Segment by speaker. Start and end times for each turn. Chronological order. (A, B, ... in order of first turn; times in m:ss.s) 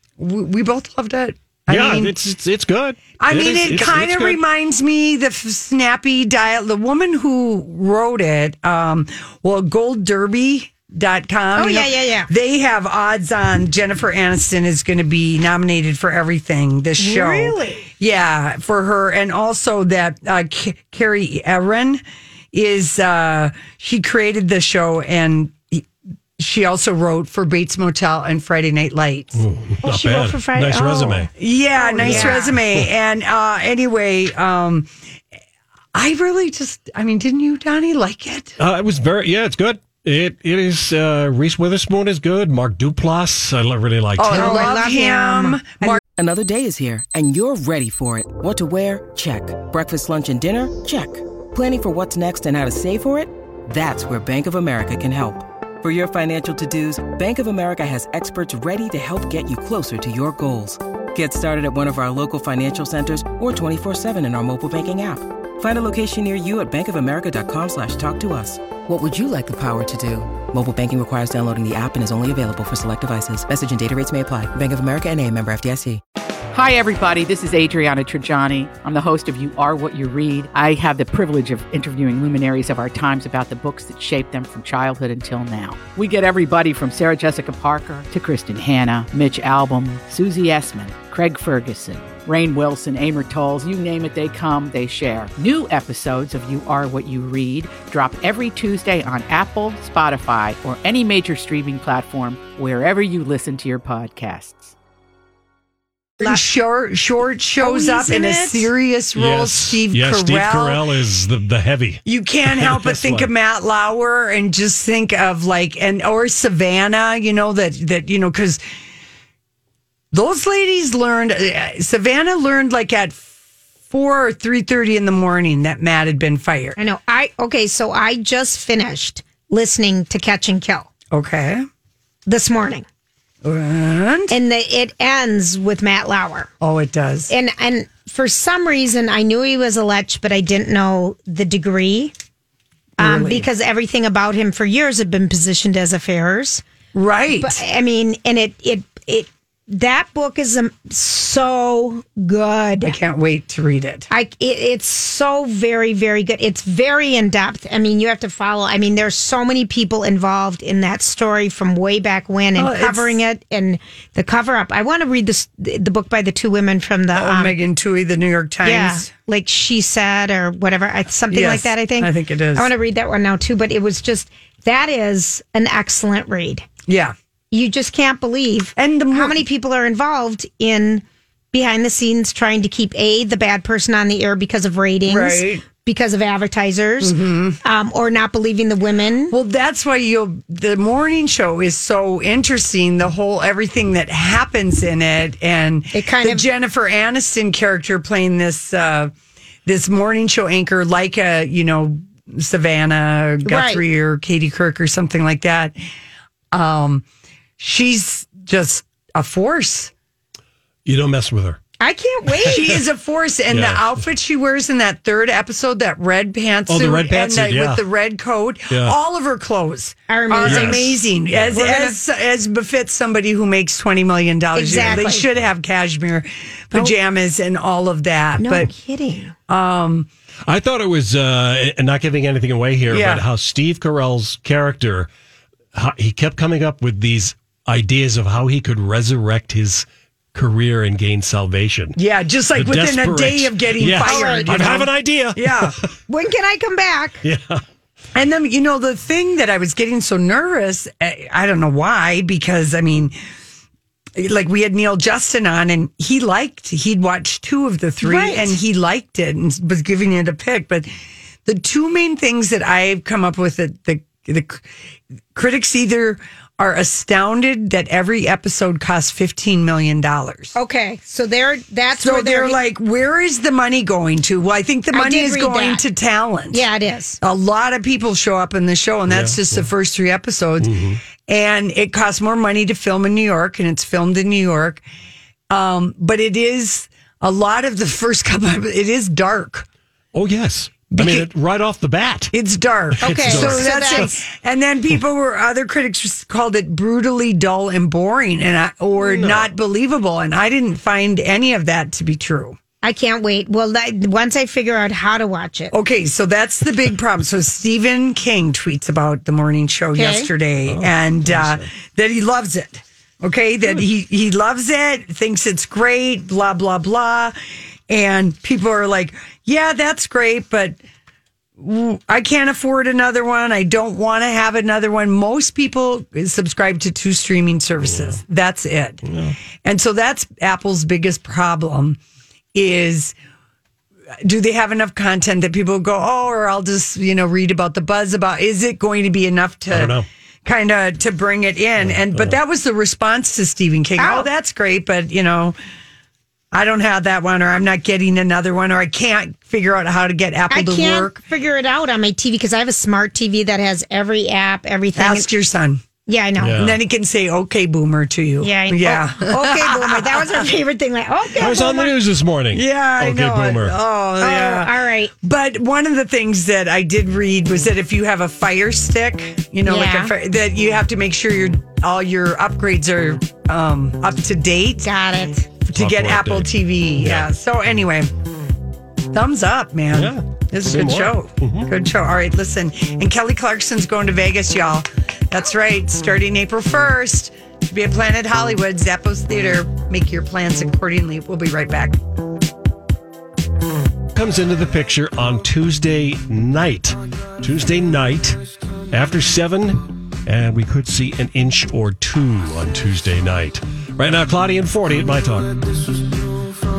0:00.2-0:02.1 A
0:01.7-0:04.4 B
0:03.2-0:25.8 A
0:11.6-0:12.3 C
0:17.0-0:17.9 C
0:26.4-0:29.4 A
0:29.3-0:31.3 B
0:29.8-0:32.5 C
0:31.4-0:34.9 A
0:32.0-0:32.8 B
0:35.9-0:38.6 A
0:38.6-0:44.7 B
0:44.2-0:46.0 A
0:44.3-0:46.0 C
0:46.2-1:16.0 D
1:16.5-1:44.7 E
1:46.2-1:50.8 A
1:47.6-1:48.7 C
1:49.1-1:53.3 B
1:52.0-1:58.6 A
2:00.1-2:03.3 A
2:03.9-2:06.8 A
2:06.8-2:10.9 C
2:11.1-2:11.7 A
2:12.3-2:12.8 C
2:13.4-2:14.3 A
2:14.3-2:16.5 C
2:16.6-2:17.3 A
2:17.3-2:22.1 C
2:23.0-2:23.5 A
2:23.0-2:26.6 C
2:26.9-2:27.6 A
2:27.4-2:33.0 C
2:32.8-2:34.1 A
2:34.1-2:47.6 C
2:42.6-2:43.2 A
2:47.1-2:49.1 A
2:48.6-2:56.7 C
2:51.3-2:52.7 A
2:56.9-2:57.1 A
2:57.5-3:09.3 C
2:58.8-2:59.4 A
3:05.1-3:05.6 A
3:07.0-3:07.6 A
3:09.3-3:19.1 A
3:15.9-3:16.4 C
3:19.6-3:25.8 A
3:23.4-3:23.8 C
3:26.5-3:27.0 A
3:27.6-3:29.9 A
3:30.8-3:31.6 B
3:31.8-3:32.8 C
3:32.4-3:48.7 A
3:33.5-3:34.0 B
3:36.7-3:37.8 B
3:38.7-3:38.9 B
3:40.1-3:41.0 C
3:40.4-3:41.7 B
3:41.5-3:41.9 C
3:44.5-3:45.2 C
3:48.4-3:49.3 C
3:49.5-3:50.1 A
3:50.5-3:55.1 B
3:52.9-3:53.2 A
3:55.7-4:02.0 B
4:02.0-4:05.8 A
4:02.5-4:05.8 B
4:04.0-4:04.7 C
4:06.1-4:07.2 C
4:07.2-4:07.6 B
4:08.1-4:13.1 A
4:14.2-4:20.9 A
4:18.0-4:18.6 C
4:21.4-4:24.7 A
4:25.3-4:30.5 A
4:30.5-4:32.6 C
4:32.0-4:36.6 A
4:34.9-4:35.8 C
4:36.5-4:37.2 C
4:37.2-4:44.8 A
4:39.1-4:39.6 B
4:40.6-4:41.0 B
4:45.5-4:49.7 A
4:50.1-4:52.3 B
4:50.9-4:51.3 A
4:52.3-5:02.6 A
4:52.9-4:54.1 B
4:53.0-4:54.2 C
4:59.1-4:59.4 B
5:02.8-5:05.7 C
5:05.7-5:17.3 A
5:09.9-5:10.3 C
5:10.7-5:11.7 B
5:17.9-5:20.8 A
5:21.6-5:29.0 A
5:27.8-5:28.2 B
5:29.0-5:29.4 B
5:29.6-5:32.0 A
5:32.5-5:33.1 A
5:34.2-5:45.6 A
5:39.7-5:40.0 B
5:41.8-5:42.4 B
5:44.0-5:44.3 C
5:46.5-5:51.2 A
5:50.5-5:55.3 C
5:55.0-5:55.8 A
5:56.0-5:56.6 C
5:56.4-5:56.8 B
5:56.5-6:00.5 A
5:58.4-6:02.0 C
6:01.4-6:03.7 B
6:02.5-6:14.9 A
6:04.2-6:05.1 C
6:09.6-6:10.1 C
6:14.8-6:15.5 C
6:15.6-6:18.1 A
6:15.7-6:17.3 B
6:19.1-6:32.0 A
6:19.9-6:21.7 B
6:34.1-6:38.4 B
6:38.9-6:45.8 B